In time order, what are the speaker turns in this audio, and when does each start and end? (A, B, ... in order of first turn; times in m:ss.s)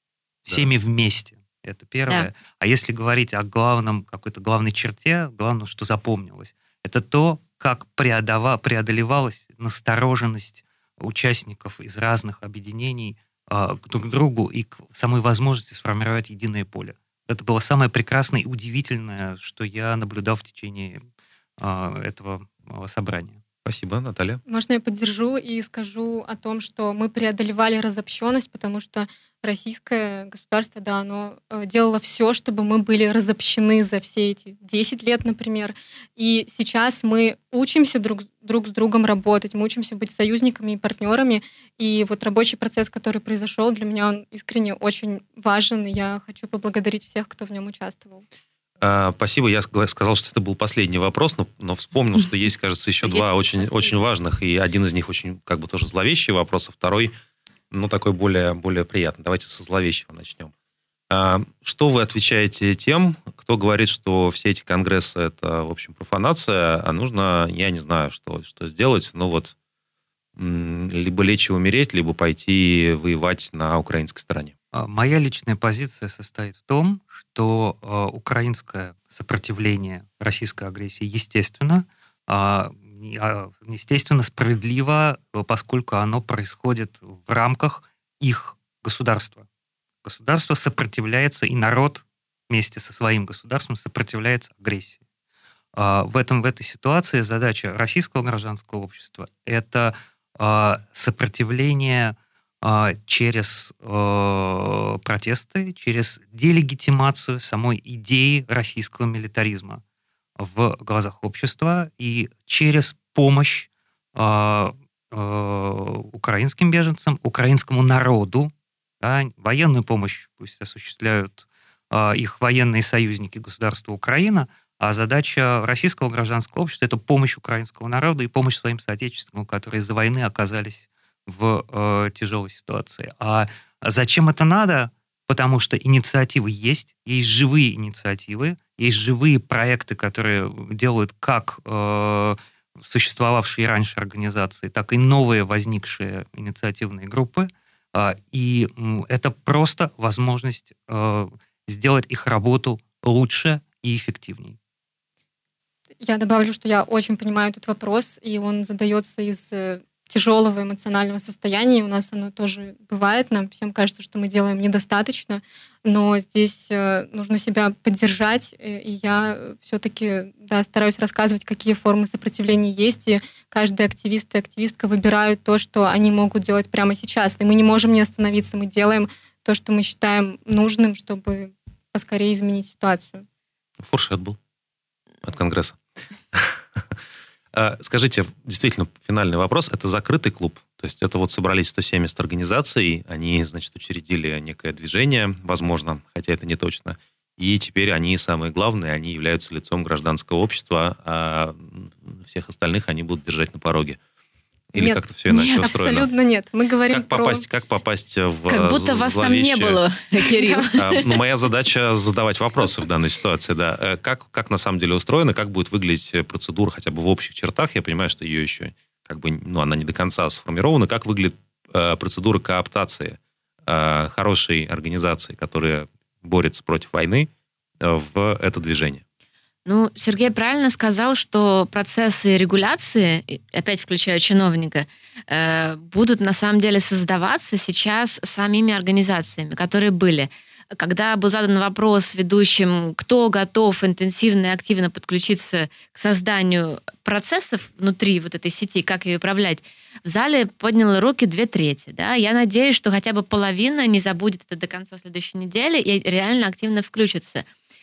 0:00.5-0:21.0 A
0:21.6-0:23.4 A
0:23.6-0:24.4 B
0:24.5-0:48.2 C
0:48.8-0:57.1 B
0:53.0-0:54.0 D
0:57.7-1:00.5 B
1:01.1-1:09.5 B
1:10.4-1:14.5 B
1:14.7-1:29.4 A
1:30.0-1:35.0 A
1:35.7-1:49.8 A
1:50.4-2:34.6 A
2:36.0-3:03.2 C
3:03.8-3:04.4 B
3:05.2-3:05.8 B
3:06.3-3:06.8 B
3:07.5-3:24.0 B
3:24.7-3:26.1 B
3:24.8-3:27.4 C
3:26.9-3:29.8 B
3:28.5-3:31.0 D
3:30.2-3:30.7 C
3:30.7-3:49.0 B
3:49.6-4:17.5 D